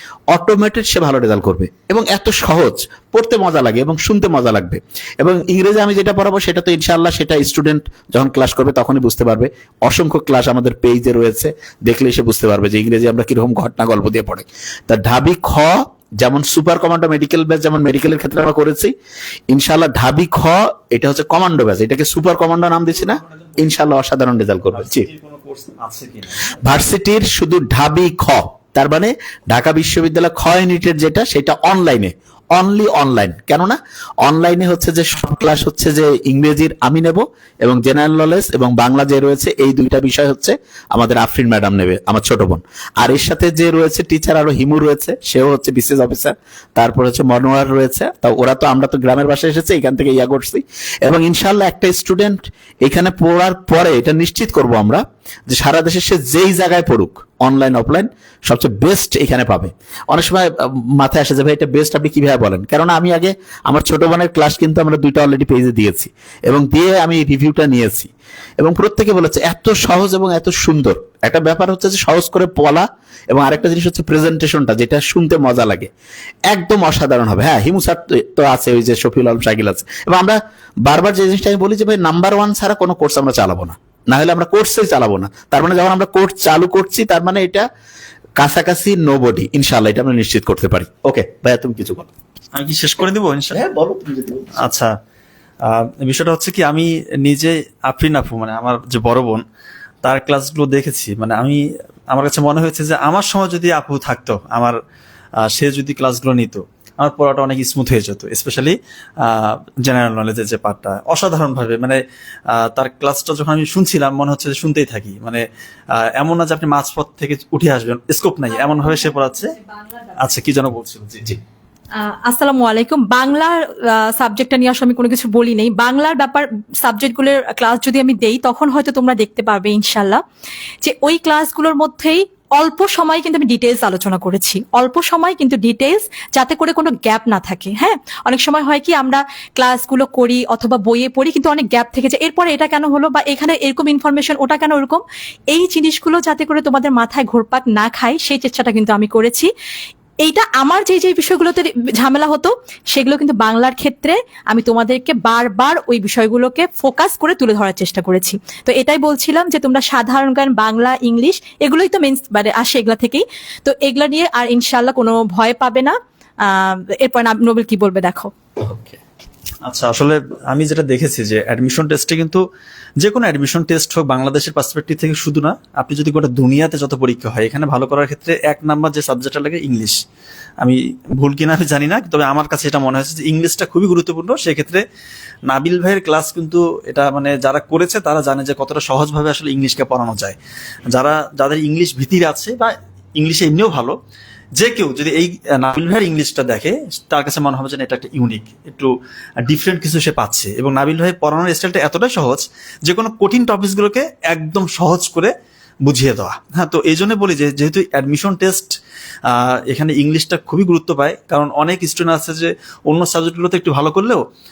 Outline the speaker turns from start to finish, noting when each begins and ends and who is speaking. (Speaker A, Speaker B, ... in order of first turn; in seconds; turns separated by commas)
Speaker A: 0.3-18.9, Speaker A: 19.5-25.1, Speaker B: 23.1-23.6, Speaker B: 24.7-26.5, Speaker A: 26.6-75.9, Speaker A: 76.5-87.6, Speaker A: 88.4-92.1, Speaker B: 92.5-93.6, Speaker A: 93.5-94.7, Speaker B: 94.6-94.9, Speaker B: 95.6-99.4, Speaker B: 100.0-104.8, Speaker B: 105.4-115.4, Speaker B: 115.9-119.5, Speaker C: 118.5-120.1, Speaker B: 120.2-121.3, Speaker C: 122.0-130.2, Speaker C: 130.8-149.5, Speaker C: 150.2-168.3, Speaker A: 168.6-169.0, Speaker B: 169.6-172.4, Speaker B: 173.0-180.0, Speaker B: 180.6-184.8, Speaker B: 185.5-190.4, Speaker B: 190.9-193.9, Speaker B: 194.6-198.9, Speaker B: 199.4-205.3, Speaker B: 205.8-214.2